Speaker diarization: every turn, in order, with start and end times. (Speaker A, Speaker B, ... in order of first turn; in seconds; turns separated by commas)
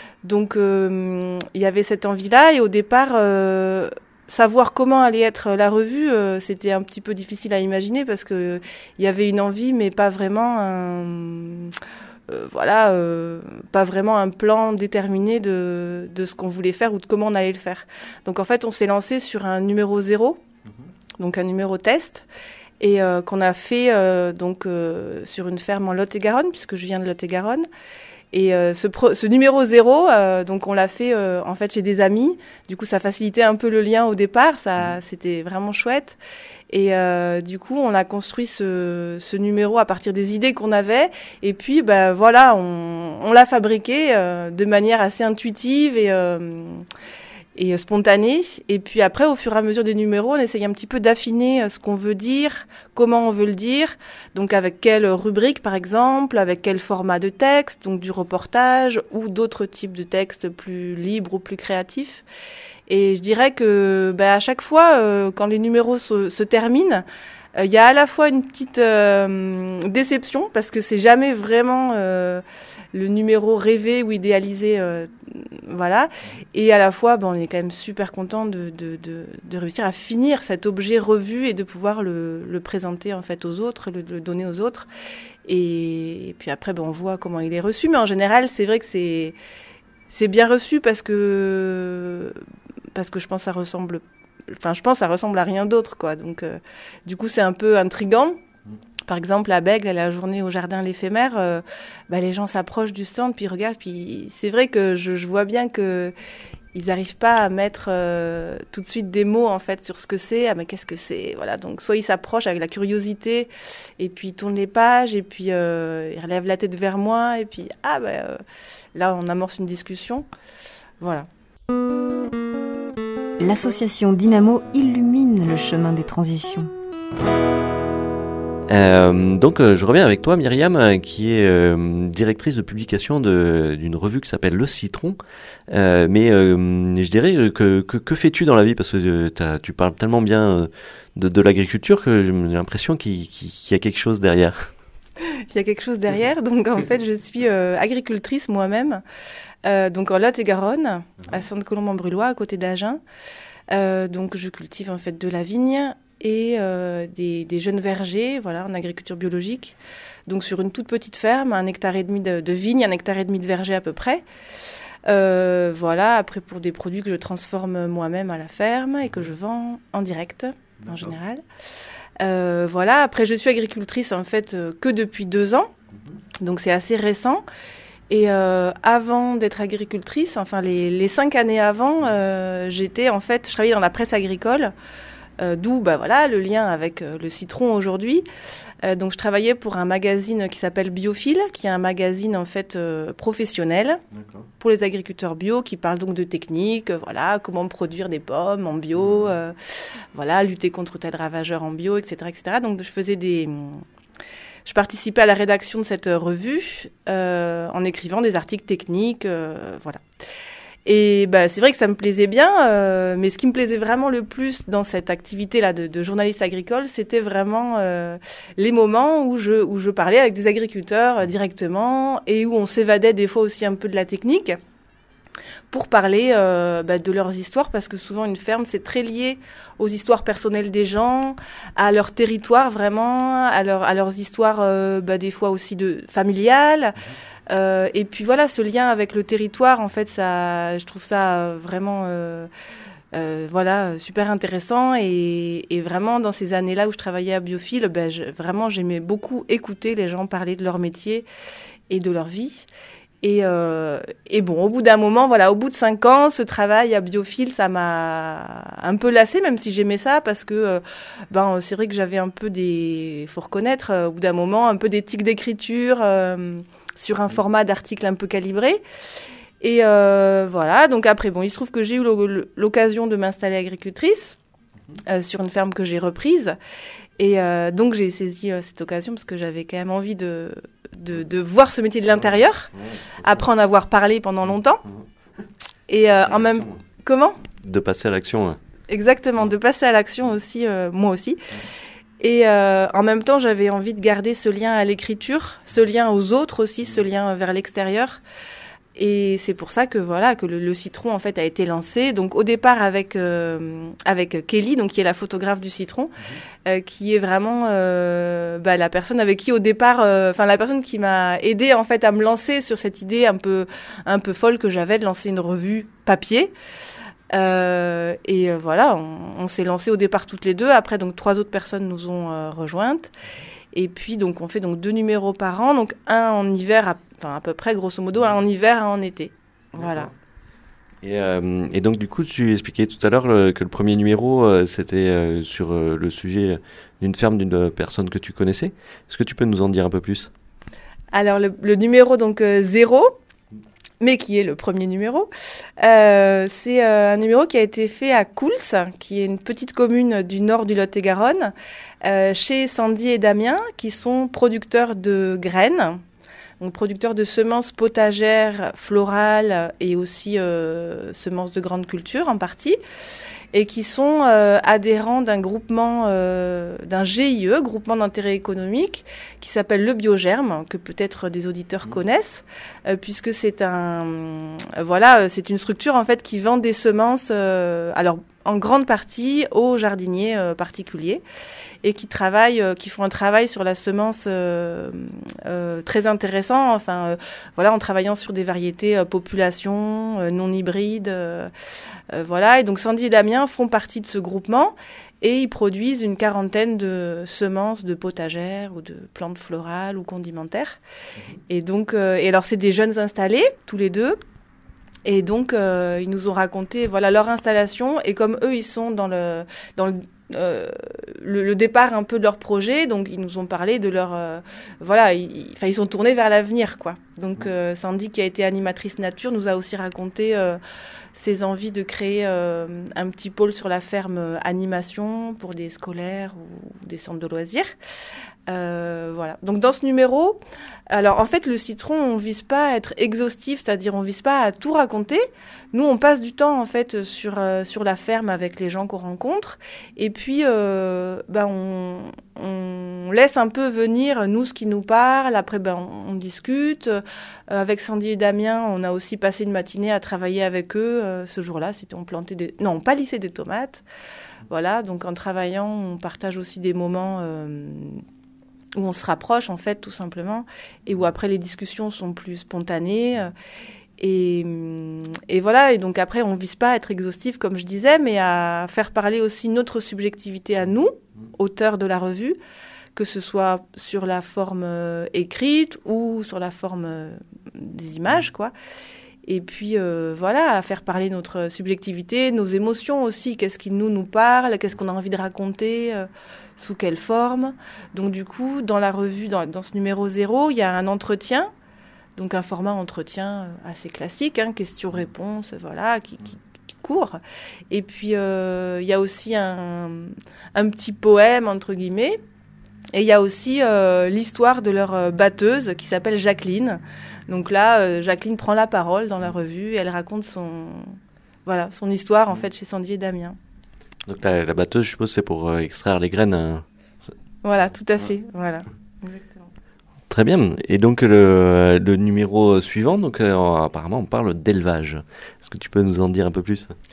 Speaker A: 0.2-11.7, Speaker A: 12.3-20.4, Speaker A: 21.2-22.2, Speaker A: 22.8-27.7, Speaker A: 28.3-36.2, Speaker A: 36.7-46.8, Speaker A: 47.5-62.2, Speaker A: 62.9-84.9, Speaker A: 85.5-89.3, Speaker A: 90.1-92.4, Speaker A: 92.9-98.4, Speaker A: 99.1-106.1, Speaker A: 106.7-118.4, Speaker A: 118.9-120.3, Speaker A: 121.0-121.3, Speaker B: 123.4-126.7, Speaker C: 128.7-135.2, Speaker C: 135.7-144.7, Speaker A: 145.2-149.0, Speaker A: 149.6-153.0, Speaker A: 153.7-164.2, Speaker A: 165.1-171.4, Speaker C: 170.8-171.1, Speaker A: 172.2-175.7, Speaker A: 176.4-177.4, Speaker A: 178.1-184.7, Speaker A: 185.4-188.2, Speaker A: 188.8-194.0, Speaker C: 194.1-194.5, Speaker A: 194.6-203.8, Speaker C: 199.0-199.3, Speaker A: 204.6-210.0, Speaker A: 210.8-224.6, Speaker A: 225.7-236.9, Speaker A: 237.5-242.5, Speaker A: 243.1-251.2, Speaker A: 251.9-252.7, Speaker A: 253.2-268.8, Speaker A: 269.6-274.4, Speaker A: 275.0-276.6, Speaker A: 277.2-284.8, Speaker C: 282.1-283.4, Speaker A: 285.9-287.4, Speaker C: 286.1-286.8, Speaker C: 287.6-288.6, Speaker A: 288.9-291.5, Speaker A: 292.2-298.2, Speaker A: 298.9-316.5, Speaker A: 317.3-323.1, Speaker A: 323.7-330.1, Speaker C: 329.8-330.1, Speaker C: 331.0-340.3, Speaker A: 341.1-343.1, Speaker A: 344.0-356.0, Speaker A: 356.6-362.8, Speaker A: 363.5-381.2, Speaker A: 381.8-391.5, Speaker A: 392.1-400.8, Speaker A: 401.5-404.2, Speaker A: 405.1-420.6, Speaker A: 421.1-427.7, Speaker A: 428.5-430.4, Speaker A: 430.9-453.8, Speaker A: 454.5-458.0, Speaker A: 458.8-463.3, Speaker A: 464.0-472.4, Speaker A: 472.9-478.5, Speaker A: 479.2-491.5, Speaker A: 492.2-502.2, Speaker A: 502.9-513.4, Speaker C: 514.1-516.6, Speaker A: 517.4-519.4, Speaker C: 520.1-526.7